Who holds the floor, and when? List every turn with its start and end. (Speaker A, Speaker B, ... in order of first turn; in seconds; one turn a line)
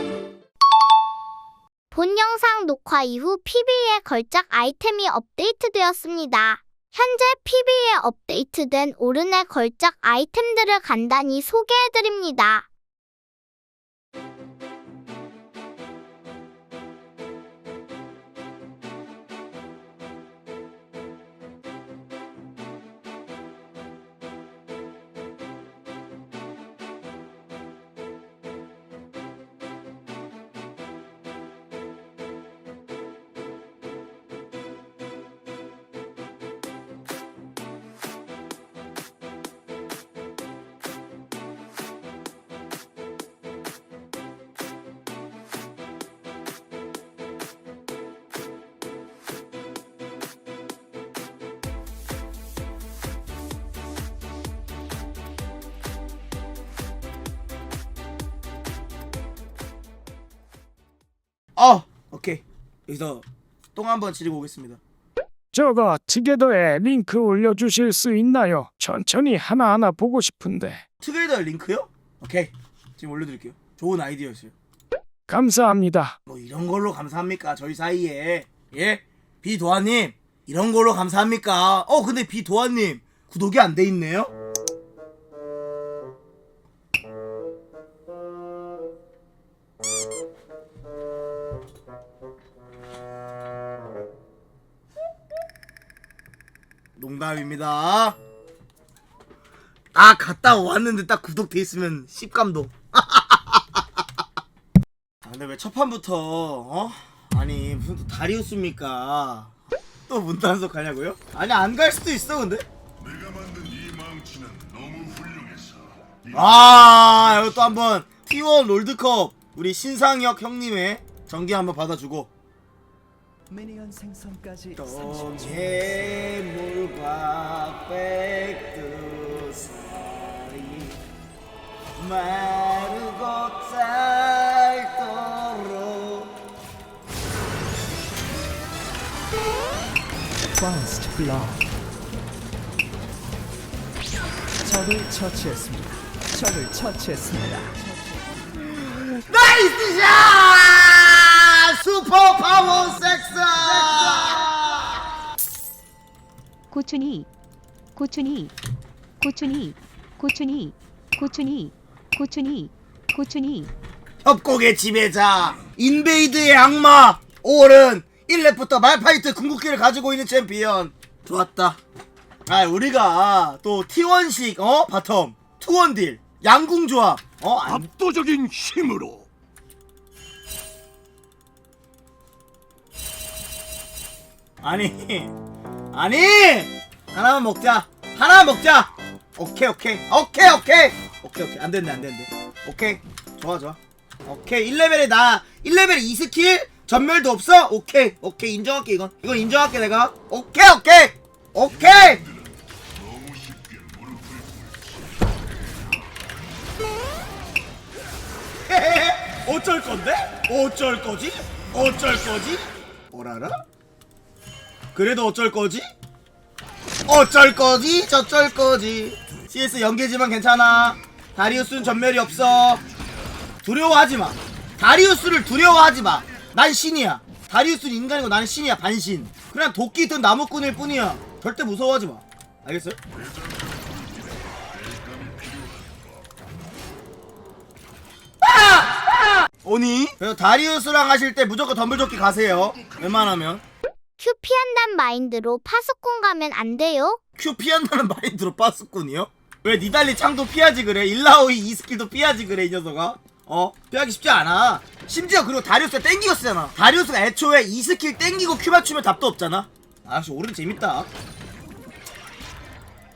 Speaker A: 1.9-12.7
Speaker B: 61.6-64.8
Speaker C: 65.5-70.8
Speaker B: 71.0-74.5
Speaker C: 75.3-76.1
Speaker B: 76.3-84.3
Speaker B: 97.0-98.2
Speaker B: 99.9-104.0
Speaker B: 105.2-109.5
Speaker B: 110.1-112.6
Speaker D: 113.1-115.9
Speaker B: 116.3-122.3
Speaker E: 123.5-124.8
Speaker B: 124.8-131.0
Speaker B: 131.9-136.4
Speaker E: 140.6-141.6
Speaker E: 144.6-147.8
Speaker B: 148.6-155.0
Speaker F: 156.7-157.3
Speaker F: 157.9-158.5
Speaker F: 159.2-163.7
Speaker B: 164.2-171.8
Speaker B: 172.5-177.9
Speaker D: 177.8-179.2
Speaker B: 184.6-185.3
Speaker B: 185.9-202.2
Speaker D: 203.2-204.6
Speaker B: 208.7-213.6
Speaker B: 214.9-215.9
Speaker B: 217.1-222.8
Speaker B: 223.6-233.0
Speaker D: 233.6-234.2
Speaker D: 234.9-235.9
Speaker B: 238.4-243.6
Speaker A: 244.2-247.2
Speaker B: 247.4-261.1